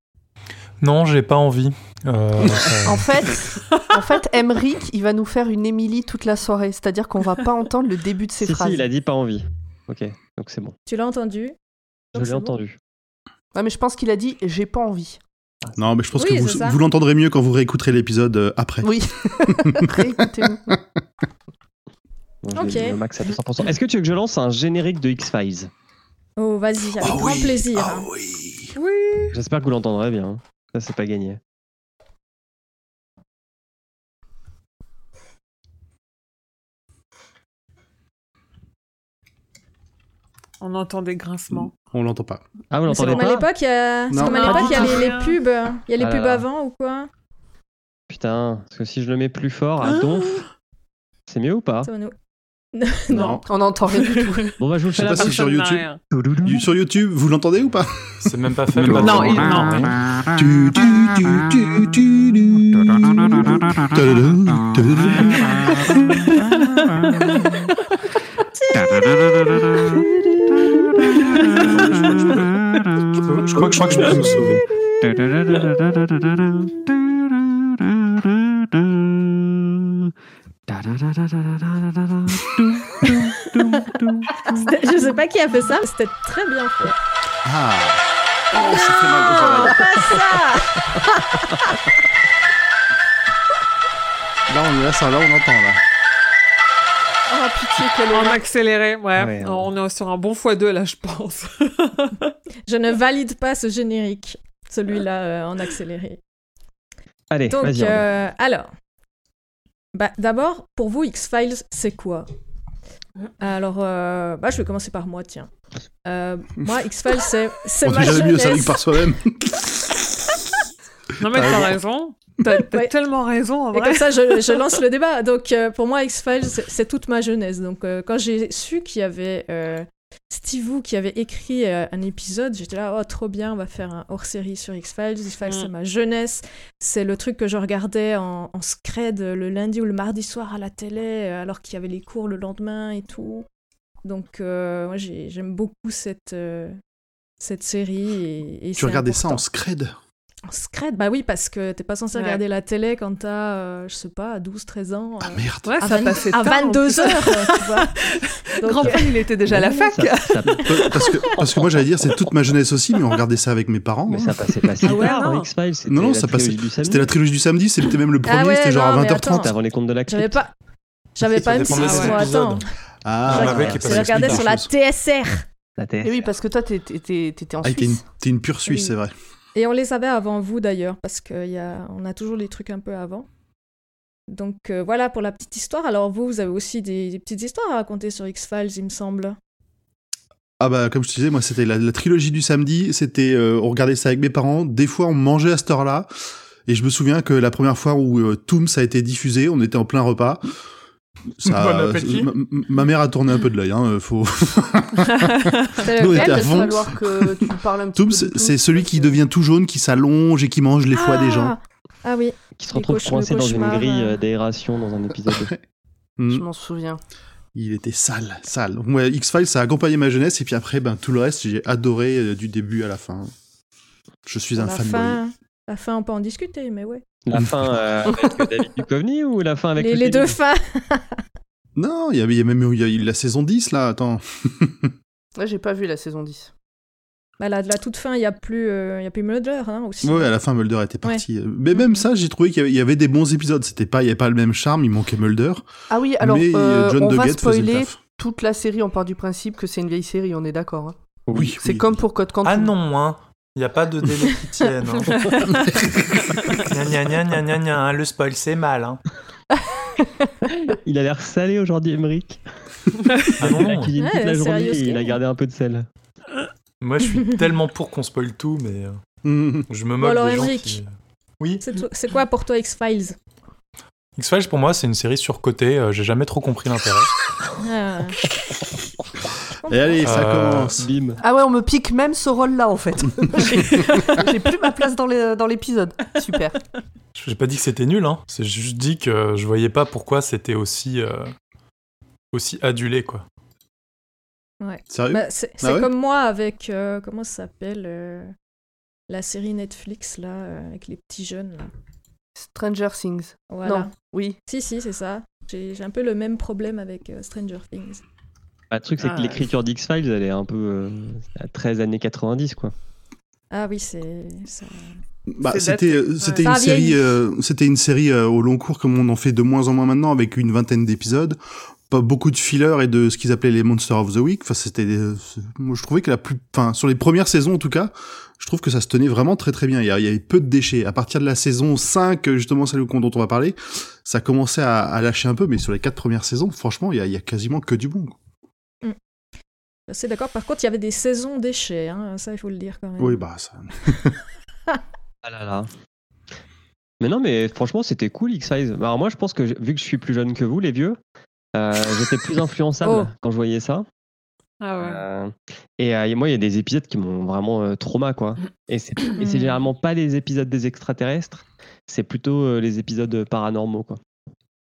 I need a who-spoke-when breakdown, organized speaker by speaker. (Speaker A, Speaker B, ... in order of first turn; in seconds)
Speaker A: 0.8-3.2, 58.2-60.0, 73.2-74.7, 171.3-172.7, 173.2-174.5, 201.4-202.3, 252.4-255.8, 256.5-259.0, 263.4-263.9, 266.8-269.0, 269.7-270.9, 274.2-277.1, 280.0-280.8, 287.2-291.3, 292.3-293.2
Speaker B: 2.9-8.9, 13.5-15.2, 18.8-20.7, 53.5-54.5, 69.8-72.3, 97.3-98.4, 176.0-178.1, 206.0-209.2, 216.3-217.0, 235.4-236.5, 245.9-251.0, 251.6-252.8, 281.2-286.6, 302.4-304.4
Speaker C: 8.4-10.8, 12.2-12.8, 22.4-25.7, 29.3-31.4, 42.7-43.5, 46.0-46.5, 48.1-50.5, 51.3-51.9, 54.6-55.4, 56.1-56.6, 58.8-60.0, 75.1-76.7, 77.8-79.7, 80.7-84.7, 99.2-99.7, 107.3-108.1, 158.8-161.8, 164.1-167.1, 169.3-170.4, 173.3-173.9, 175.8-176.2, 212.6-215.5, 227.3-230.4, 260.7-262.4, 263.4-265.9, 280.8-281.2, 308.7-312.7, 345.2-345.7, 347.0-351.0, 351.6-353.9, 354.8-364.0
Speaker D: 10.9-11.6, 12.1-12.6, 16.1-16.8, 22.5-23.0, 26.4-28.1, 42.9-47.1, 51.9-52.1, 52.7-53.4, 68.6-69.5, 84.5-87.0, 88.5-91.7, 102.7-106.2, 107.5-108.7, 109.9-112.3, 113.4-115.5, 116.0-118.8, 123.7-143.4, 144.0-146.8, 147.4-149.4, 150.5-158.0, 158.6-159.1, 168.2-170.5, 171.2-172.6, 173.3-175.4, 178.7-178.9, 179.6-183.3, 184.3-189.4, 205.8-206.7, 210.9-214.2, 224.6-227.0, 229.8-231.2, 237.4-240.3, 241.0-242.1, 264.0-265.1, 270.0-270.8, 271.6-273.2, 277.6-278.2, 279.6-280.0, 294.6-298.3, 299.1-301.7, 303.5-303.9, 304.5-308.0, 313.5-314.9, 316.4-317.1, 339.9-343.2, 352.8-353.1
Speaker E: 15.8-20.1, 27.0-28.7, 41.5-42.4, 44.1-45.0, 53.1-53.5, 55.0-55.9, 56.5-59.0, 60.3-66.0, 73.4-74.6, 87.5-90.4, 94.5-95.8, 117.8-119.7, 121.3-121.8, 148.8-149.9, 155.2-155.8, 160.7-165.0, 165.9-169.5, 173.1-174.7, 177.6-179.1, 190.6-196.1, 196.7-200.4, 201.4-211.6, 215.3-215.6, 216.2-216.4, 217.6-223.3, 224.3-225.2, 231.8-234.9, 240.0-245.7, 246.2-248.0, 251.3-252.0, 269.2-269.7, 279.7-280.9, 294.9-295.9, 315.3-321.4, 321.9-338.2, 343.0-344.2
Speaker F: 28.8-29.4, 40.6-41.7, 44.3-45.4, 49.9-50.4, 55.0-56.0, 58.9-59.9, 98.1-102.3, 121.2-124.6, 152.1-152.4, 155.7-161.3, 164.8-165.5, 171.8-172.2, 255.1-255.8, 309.0-309.5, 315.5-316.5, 354.6-355.0